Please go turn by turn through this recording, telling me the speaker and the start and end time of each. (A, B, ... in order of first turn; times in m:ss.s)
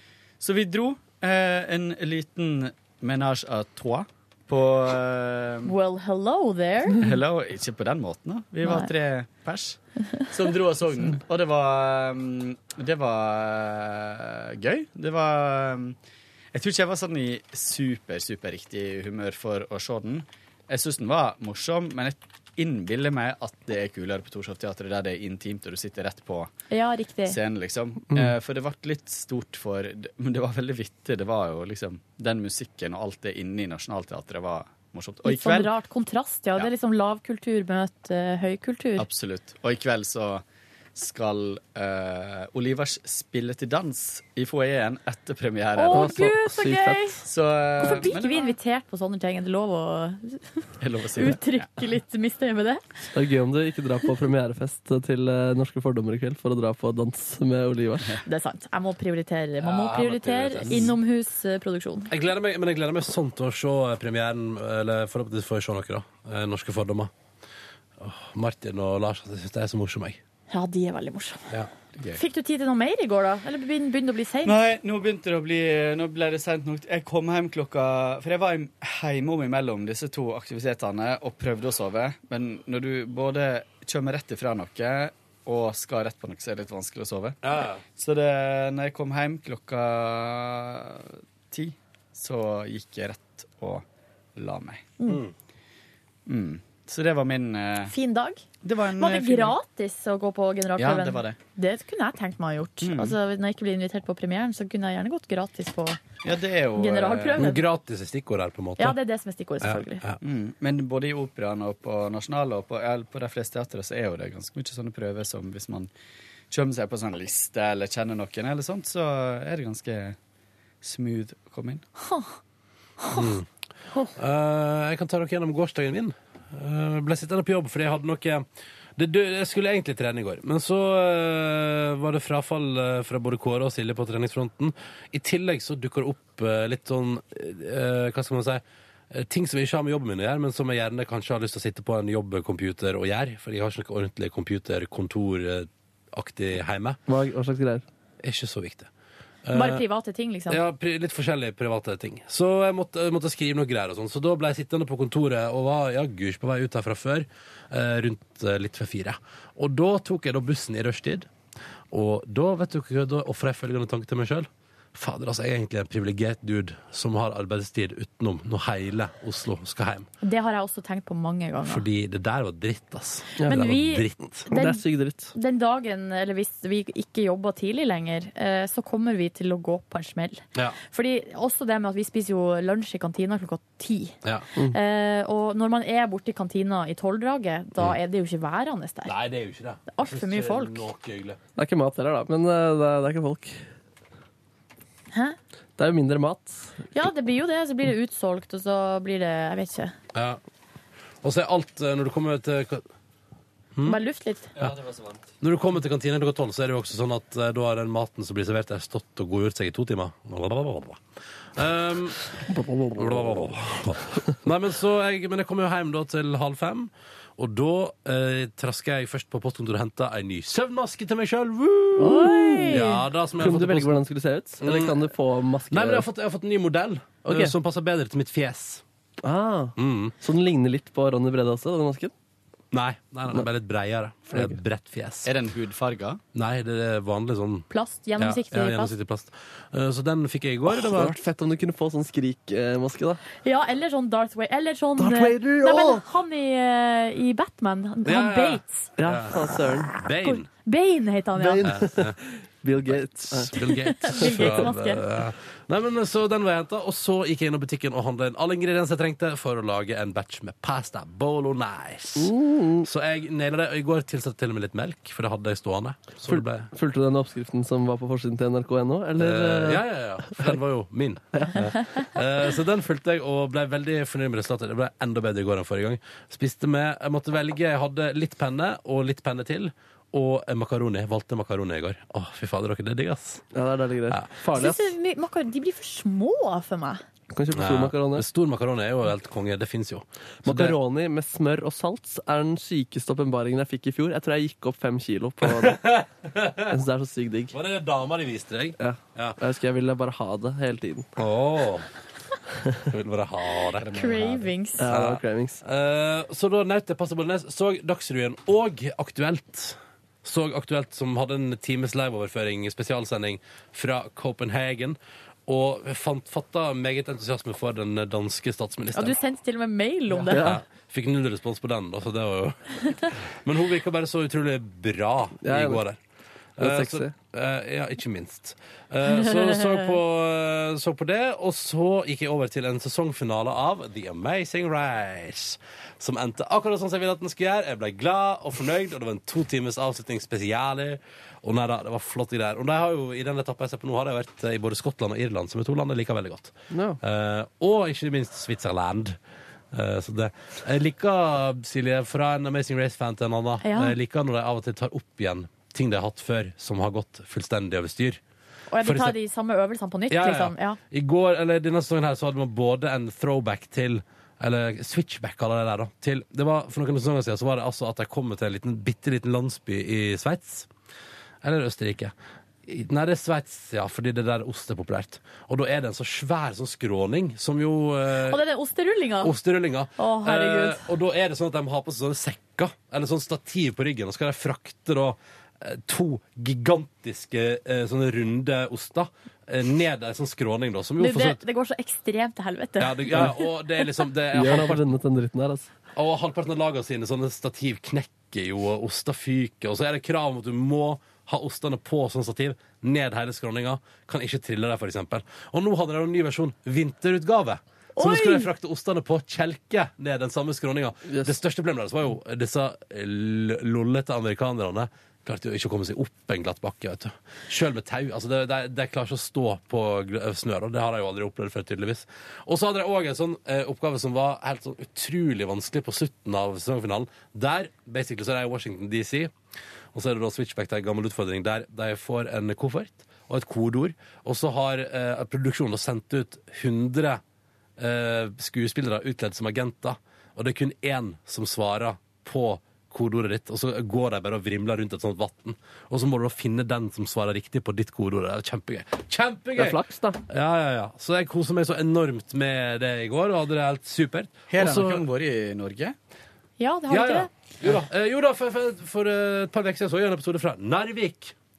0:00.4-0:05.7 A
0:05.6-0:07.0 B
0:07.0-0:09.8 A
0:08.6-0:08.9 B
0:10.3-0:16.0 A
0:16.5-0:26.5 A
0:26.7-0:27.4 B
0:27.3-0:35.7 A
0:35.2-0:39.1 B
0:39.0-0:40.4 A
0:40.9-0:46.1 A
0:45.8-0:47.2 B
0:45.9-0:47.2 C
0:47.2-0:48.5 A
0:47.8-0:50.6 B
0:50.8-0:51.6 A
0:51.2-0:52.8 B
0:53.1-0:58.2 C
0:58.2-1:02.1 B
0:59.6-1:00.9 D
1:02.1-1:07.1 D
1:08.0-1:10.2 D
1:10.5-1:11.5 B
1:11.9-1:12.2 A
1:12.2-1:14.6 B
1:14.4-1:27.4 A
1:27.4-1:27.8 D
1:27.9-1:33.8 A
1:34.4-1:34.9 A
1:35.1-1:35.3 D
1:36.3-1:37.9 A
1:37.9-1:38.4 B
1:38.6-1:39.6 A
1:39.0-1:46.0 B
1:40.8-1:41.4 A
1:42.8-1:43.2 A
1:46.2-1:47.5 A
1:46.8-1:47.6 B
1:47.4-1:49.0 D
1:48.8-1:50.0 B
1:49.6-1:50.2 D
1:50.2-1:55.9 A
1:56.5-2:00.2 A
2:00.8-2:01.8 A
2:02.0-2:02.3 B
2:03.0-2:03.3 B
2:03.1-2:03.5 D
2:04.1-2:08.4 D
2:09.0-2:27.0 D
2:27.1-2:27.8 C
2:28.2-2:28.9 D
2:29.4-2:29.8 D
2:29.5-2:30.6 B
2:30.5-2:41.3 D
2:41.9-2:50.1 D
2:50.2-2:51.8 B
2:51.6-2:54.5 D
2:53.4-2:53.6 C
2:53.4-3:09.1 B
2:54.5-2:55.3 C
3:09.0-3:11.4 D
3:09.9-3:10.8 B
3:11.6-3:13.6 C
3:15.8-3:16.8 C
3:16.9-3:19.9 B
3:20.1-3:20.4 D
3:21.2-3:22.9 D
3:23.8-3:24.5 B
3:24.6-3:31.0 D
3:31.6-3:32.4 D
3:32.4-3:34.2 C
3:33.0-3:44.0 D
3:42.0-3:46.0 C
3:42.0-3:43.0 B
3:44.6-3:45.1 D
3:45.7-3:48.8 D
3:47.2-3:47.5 C
3:49.2-3:52.1 C
3:49.8-3:50.1 D
3:52.7-3:55.3 D
3:54.3-3:54.6 C
3:55.2-3:56.2 A
3:56.3-4:01.1 D
3:57.7-3:58.9 B
4:00.7-4:03.2 C
4:03.4-4:08.9 B
4:05.0-4:06.0 C
4:08.0-4:09.4 D
4:09.0-4:09.9 C
4:09.9-4:10.5 D
4:10.1-4:11.7 B
4:11.4-4:13.6 C
4:11.6-4:12.2 D
4:12.8-4:26.7 D
4:13.6-4:15.0 B
4:14.1-4:14.7 C
4:22.2-4:22.9 C
4:26.3-4:29.8 C
4:29.2-4:43.4 D
4:43.5-4:44.9 C
4:44.5-4:47.0 B
4:47.3-4:48.2 C
4:47.5-4:50.8 D
4:50.4-4:55.8 C
4:55.5-4:56.7 D
4:56.7-4:57.5 C
4:57.5-4:59.4 D
4:58.8-5:01.1 C
5:01.2-5:01.9 D
5:02.9-5:04.0 D
5:03.8-5:04.9 B
5:04.0-5:04.2 A
5:04.8-5:05.6 C
5:04.9-5:19.2 D
5:18.9-5:20.5 B
5:20.2-5:26.0 D
5:20.3-5:20.6 C
5:25.4-5:25.8 C
5:26.6-5:49.2 D
5:26.6-5:27.1 C
5:46.7-5:47.0 C
5:49.7-5:58.2 D
5:53.6-5:53.9 B
5:58.7-6:00.8 B
5:58.8-5:59.2 D
6:00.1-6:10.7 D
6:11.4-6:12.1 D
6:12.6-6:18.4 D
6:18.3-6:19.3 B
6:19.2-6:31.4 D
6:20.0-6:20.8 B
6:31.0-6:33.4 B
6:32.8-6:34.9 D
6:34.3-6:35.7 C
6:35.9-7:09.3 D
6:48.0-6:48.5 B
7:09.9-7:17.2 D
7:17.8-7:35.0 D
7:29.6-7:30.2 C
7:34.5-7:35.9 A
7:36.6-7:37.3 B
7:36.9-7:41.3 D